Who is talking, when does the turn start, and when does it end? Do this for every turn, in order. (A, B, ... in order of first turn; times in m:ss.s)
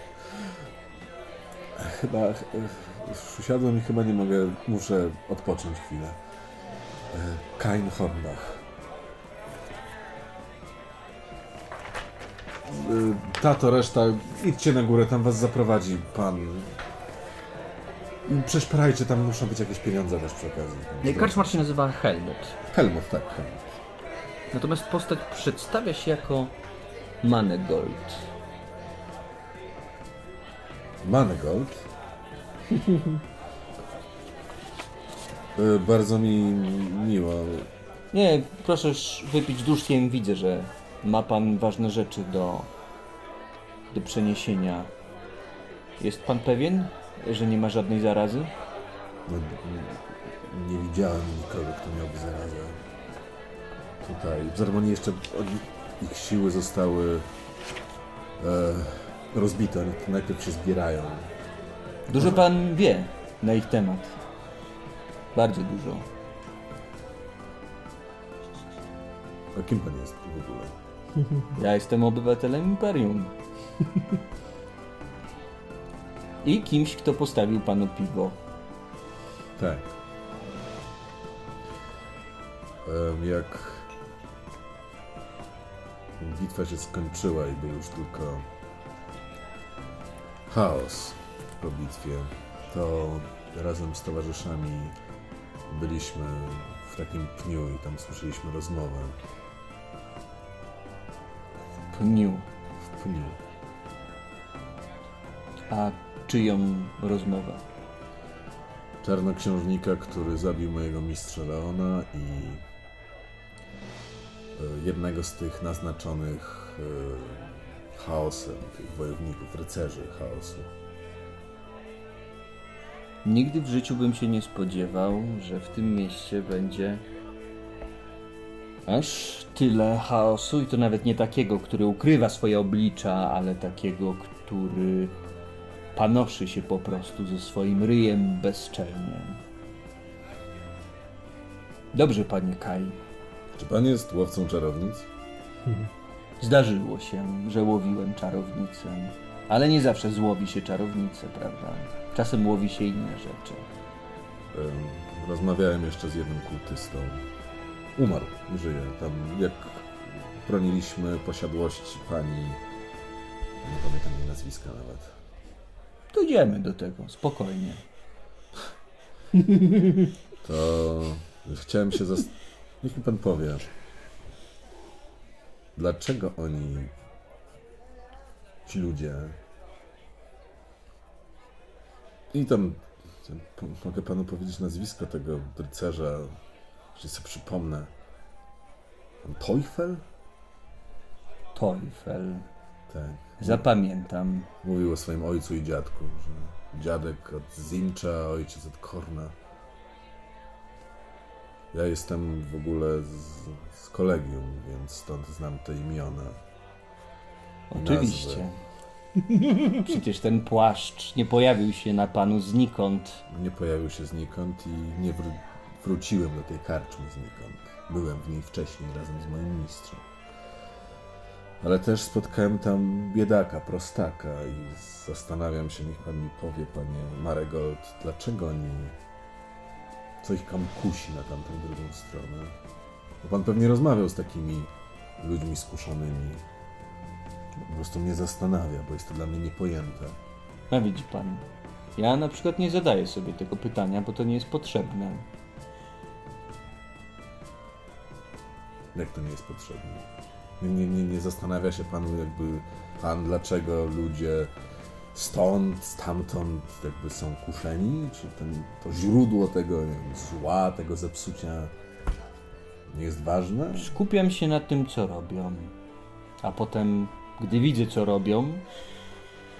0:01.8-0:06.2 A
0:07.1-0:08.6 A
0:12.7-0:16.8 A
0:18.2-0:21.6 A
0:21.0-0:22.6 B
0:22.7-0:23.6 A
0:24.5-0:26.5 B
0:27.2-0:28.2 B
0:31.0-0:31.9 A
0:35.6-0:37.7 A
0:38.1-0:42.7 B
0:43.9-0:44.9 B
0:46.0-0:48.5 B
0:49.3-0:52.8 A
0:54.0-0:57.3 A
0:58.4-1:01.3 A
1:02.1-1:04.1 B
1:02.1-1:02.4 A
1:05.3-1:06.1 B
1:09.5-1:10.7 A
1:11.5-1:13.3 B
1:16.4-1:18.4 B
1:19.6-1:19.9 A
1:22.8-1:23.9 A
1:26.2-1:28.4 A
1:30.5-1:34.9 A
1:35.7-1:39.2 A
1:41.9-1:42.4 B
1:43.0-1:43.4 A
1:45.7-1:47.6 B
1:49.0-1:52.6 A
1:54.5-2:00.7 A
2:03.2-2:07.0 B
2:08.8-2:15.1 B
2:15.9-2:19.4 B
2:21.9-2:23.0 B
2:23.5-2:25.0 A
2:26.4-2:33.6 B
2:34.5-2:37.2 A
2:38.0-2:42.6 A
2:43.6-2:45.1 A
2:46.1-2:47.8 B
2:50.4-2:53.7 A
2:55.8-2:56.9 A
2:58.7-2:59.4 A
3:02.3-3:06.4 A
3:07.0-3:07.9 A
3:09.2-3:10.0 A
3:11.5-3:12.5 B
3:12.9-3:13.6 A
3:13.4-3:14.5 B
3:14.6-3:19.3 A
3:21.7-3:26.4 A
3:27.7-3:28.6 B
3:27.7-3:28.5 A
3:29.5-3:33.2 B
3:33.3-3:40.0 A
3:41.6-3:48.9 A
3:50.2-3:52.5 A
3:53.2-3:56.4 A
3:57.6-4:00.2 A
4:00.7-4:01.4 B
4:02.0-4:05.2 B
4:08.9-4:10.0 A
4:10.6-4:14.5 A
4:15.1-4:21.7 A
4:22.9-4:23.9 A
4:23.8-4:25.7 B
4:26.4-4:28.6 B